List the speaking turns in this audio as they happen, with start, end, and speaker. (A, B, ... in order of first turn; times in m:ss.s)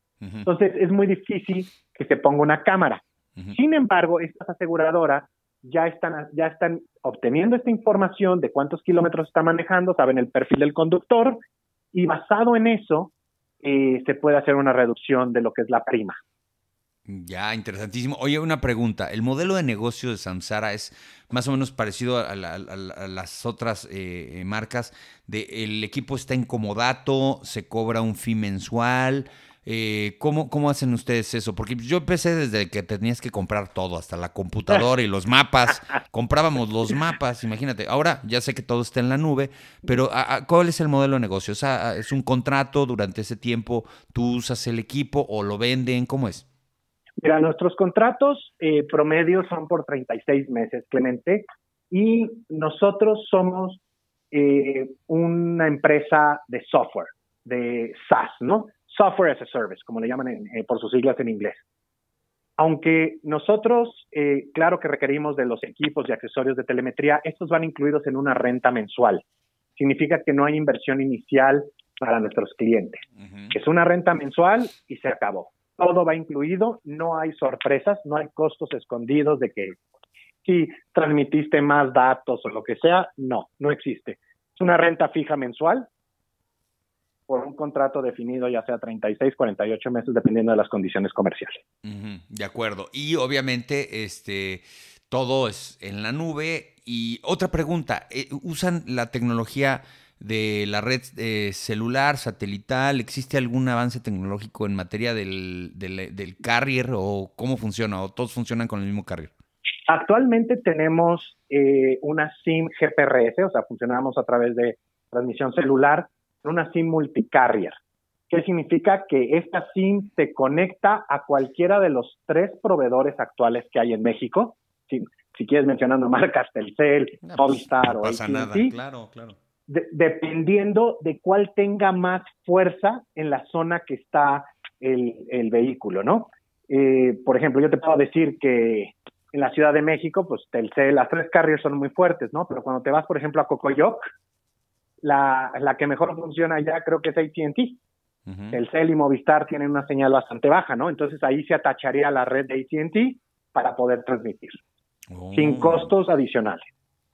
0:00.4-0:11.4 A
0:11.9-0:16.2 A
0:17.1-0:46.4 B
0:47.2-0:53.8 A
0:54.3-1:01.6 A
1:02.6-1:09.2 A
1:09.8-1:19.8 A
1:13.2-1:13.5 B
1:20.4-1:25.9 A
1:27.3-1:31.6 A
1:31.8-1:49.3 B
1:49.9-1:57.8 A
1:58.3-2:08.8 A
2:07.3-2:09.4 B
2:09.7-2:24.0 A
2:25.0-2:27.8 A
2:28.3-2:28.6 B
2:28.5-2:34.6 A
2:35.1-2:35.9 B
2:35.4-2:36.7 A